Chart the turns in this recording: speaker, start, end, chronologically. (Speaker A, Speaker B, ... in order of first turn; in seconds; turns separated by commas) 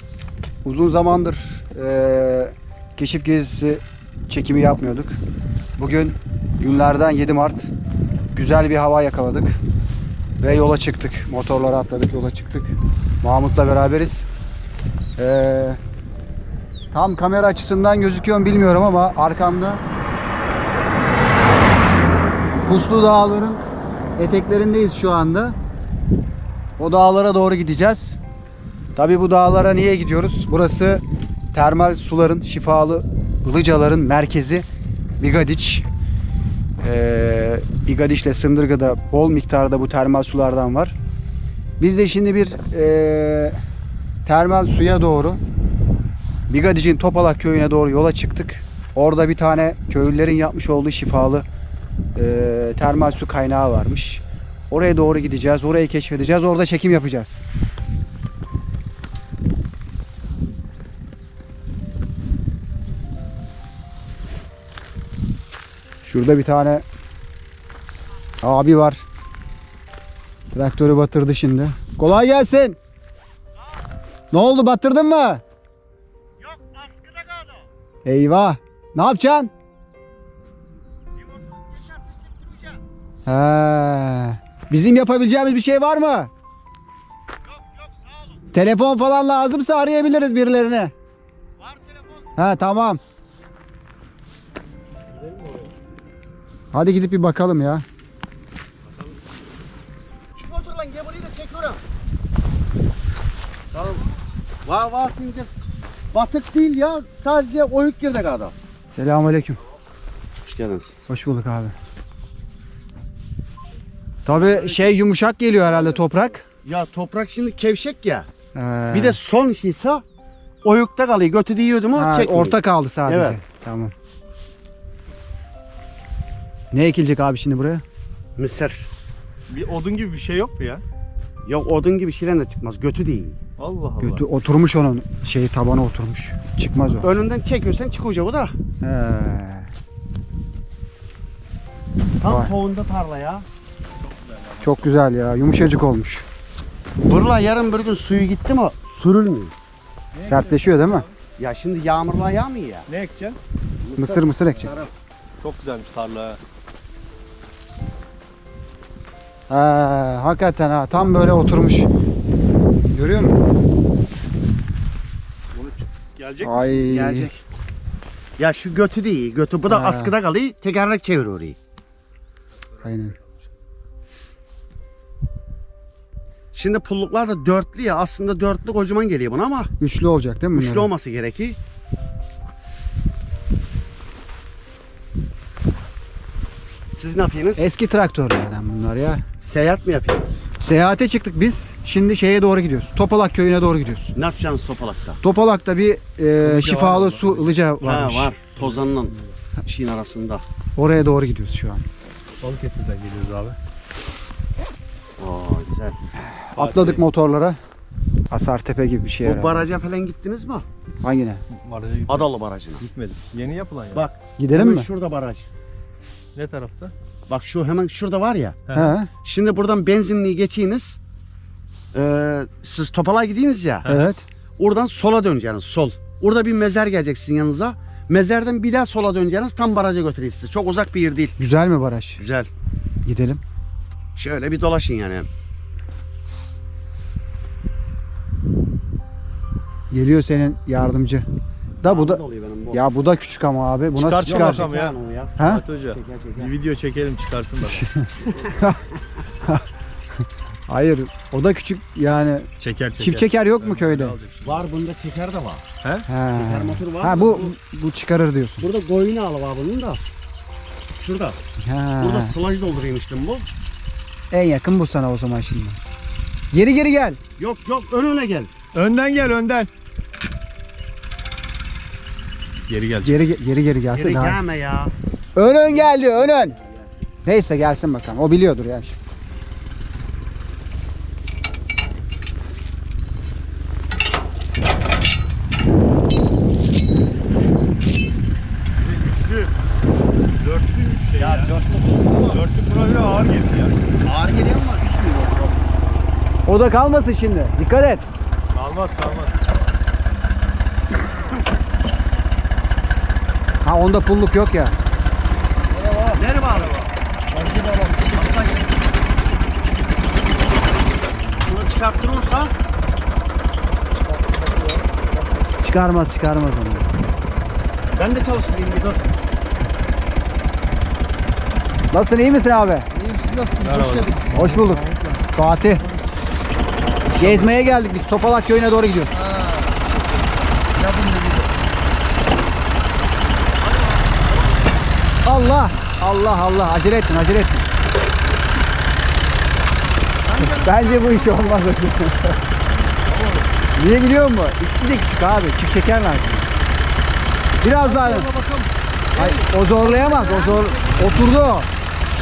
Speaker A: 0.6-5.2, Speaker A: 5.8-7.7, Speaker A: 8.3-9.6, Speaker A: 10.4-14.3, Speaker A: 15.2-15.8, Speaker A: 16.9-19.8, Speaker A: 22.6-23.6, Speaker A: 24.2-25.6, Speaker A: 26.8-28.2, Speaker A: 28.9-34.6, Speaker A: 35.2-35.9, Speaker A: 36.8-41.0, Speaker A: 41.8-43.6, Speaker A: 44.2-45.4, Speaker A: 46.5-51.5, Speaker A: 52.1-57.4, Speaker A: 66.0-66.8, Speaker A: 68.4-69.0, Speaker A: 70.5-72.8, Speaker A: 74.3-75.4, Speaker B: 76.4-77.7, Speaker A: 78.0-79.5, Speaker B: 81.2-82.8, Speaker A: 83.2-86.3, Speaker B: 87.4-88.4, Speaker A: 88.5-90.9, Speaker B: 91.6-92.3, Speaker A: 92.4-93.0, Speaker C: 95.1-95.7, Speaker A: 96.7-97.8, Speaker B: 100.4-101.8, Speaker B: 103.7-104.0, Speaker B: 104.6-105.5, Speaker B: 106.1-108.5, Speaker A: 108.9-109.6, Speaker B: 110.4-110.9, Speaker A: 111.1-111.7, Speaker A: 114.2-116.4, Speaker C: 114.5-114.8, Speaker C: 115.7-116.2, Speaker B: 116.6-118.3, Speaker A: 118.5-119.2, Speaker B: 118.9-120.0, Speaker B: 120.6-123.4, Speaker A: 121.9-123.9, Speaker A: 126.7-127.8, Speaker B: 128.4-128.9, Speaker C: 129.5-130.8, Speaker B: 131.4-133.4, Speaker C: 133.6-134.2, Speaker A: 134.0-137.1, Speaker B: 137.0-138.5, Speaker A: 138.8-139.7, Speaker B: 142.2-143.5, Speaker A: 142.2-142.5, Speaker C: 144.0-144.8, Speaker A: 144.6-146.2, Speaker B: 147.0-149.5, Speaker C: 150.1-151.2, Speaker A: 150.2-151.1, Speaker B: 151.4-152.8, Speaker C: 152.9-153.4, Speaker B: 153.8-154.9, Speaker A: 154.0-154.7, Speaker C: 155.4-156.4, Speaker A: 159.5-161.9, Speaker A: 162.9-163.4, Speaker C: 165.5-166.7, Speaker A: 166.4-167.3, Speaker B: 166.8-167.4, Speaker B: 168.4-171.6, Speaker A: 169.6-170.2, Speaker C: 172.7-173.4, Speaker A: 172.8-173.2, Speaker B: 176.5-179.7, Speaker A: 179.8-180.9, Speaker B: 180.5-181.6, Speaker B: 186.9-187.6, Speaker A: 187.6-189.2, Speaker B: 189.4-190.4, Speaker A: 190.6-194.1, Speaker B: 194.1-195.2, Speaker A: 195.2-198.3, Speaker C: 196.4-197.6, Speaker B: 197.8-200.4, Speaker C: 198.5-199.3, Speaker A: 200.8-201.8, Speaker C: 202.4-203.6, Speaker B: 205.2-206.0, Speaker C: 206.5-207.0, Speaker A: 206.6-207.6, Speaker A: 208.3-209.7, Speaker B: 209.2-210.7, Speaker A: 211.0-211.4, Speaker C: 211.5-214.0, Speaker B: 212.1-212.8, Speaker B: 213.9-215.4, Speaker A: 214.4-214.9, Speaker C: 216.3-216.9, Speaker B: 217.3-218.6, Speaker C: 218.7-218.9, Speaker A: 218.7-219.1, Speaker B: 219.2-221.0, Speaker B: 221.9-223.9, Speaker C: 223.8-224.1, Speaker A: 223.9-224.2, Speaker B: 224.6-231.3, Speaker A: 231.4-232.2, Speaker B: 232.2-232.5, Speaker A: 233.0-233.4, Speaker B: 234.2-235.3, Speaker A: 239.9-241.2, Speaker B: 241.8-242.8, Speaker A: 241.8-242.2, Speaker A: 242.7-244.7, Speaker C: 243.9-247.9, Speaker B: 244.2-246.5, Speaker A: 245.4-245.6, Speaker A: 247.6-249.7, Speaker A: 250.7-254.2, Speaker C: 252.6-254.7, Speaker B: 254.4-255.6, Speaker C: 255.8-256.1, Speaker A: 256.1-258.7, Speaker B: 256.3-257.5, Speaker B: 258.6-260.0, Speaker B: 261.0-261.4, Speaker A: 261.6-262.4, Speaker B: 262.0-263.5, Speaker A: 264.3-265.8, Speaker A: 266.5-267.2, Speaker B: 267.4-268.5, Speaker C: 268.7-269.7, Speaker C: 272.7-273.2, Speaker A: 273.0-274.4, Speaker B: 273.9-274.9, Speaker A: 275.4-276.6, Speaker B: 275.7-276.9, Speaker A: 277.2-278.9, Speaker C: 288.7-289.6, Speaker C: 290.4-291.6, Speaker B: 291.2-292.4, Speaker C: 292.1-293.8, Speaker B: 294.0-295.6, Speaker A: 296.5-298.1, Speaker C: 298.5-299.4, Speaker A: 303.6-304.8, Speaker D: 305.7-306.3, Speaker B: 306.1-306.9, Speaker D: 307.3-308.4, Speaker B: 308.1-308.7, Speaker B: 311.3-312.5, Speaker D: 313.9-315.4, Speaker A: 315.6-316.9, Speaker B: 317.9-319.1, Speaker A: 321.9-322.9, Speaker D: 322.9-325.3, Speaker C: 323.6-324.8, Speaker A: 324.4-324.8, Speaker A: 325.3-325.8, Speaker A: 327.1-329.1, Speaker D: 327.2-327.5, Speaker D: 329.1-331.5, Speaker B: 333.6-334.8, Speaker A: 335.2-337.7, Speaker B: 340.2-341.6, Speaker A: 340.5-342.4, Speaker C: 343.1-343.5, Speaker A: 343.8-346.5, Speaker A: 347.6-348.3, Speaker B: 347.8-351.3, Speaker A: 349.2-351.7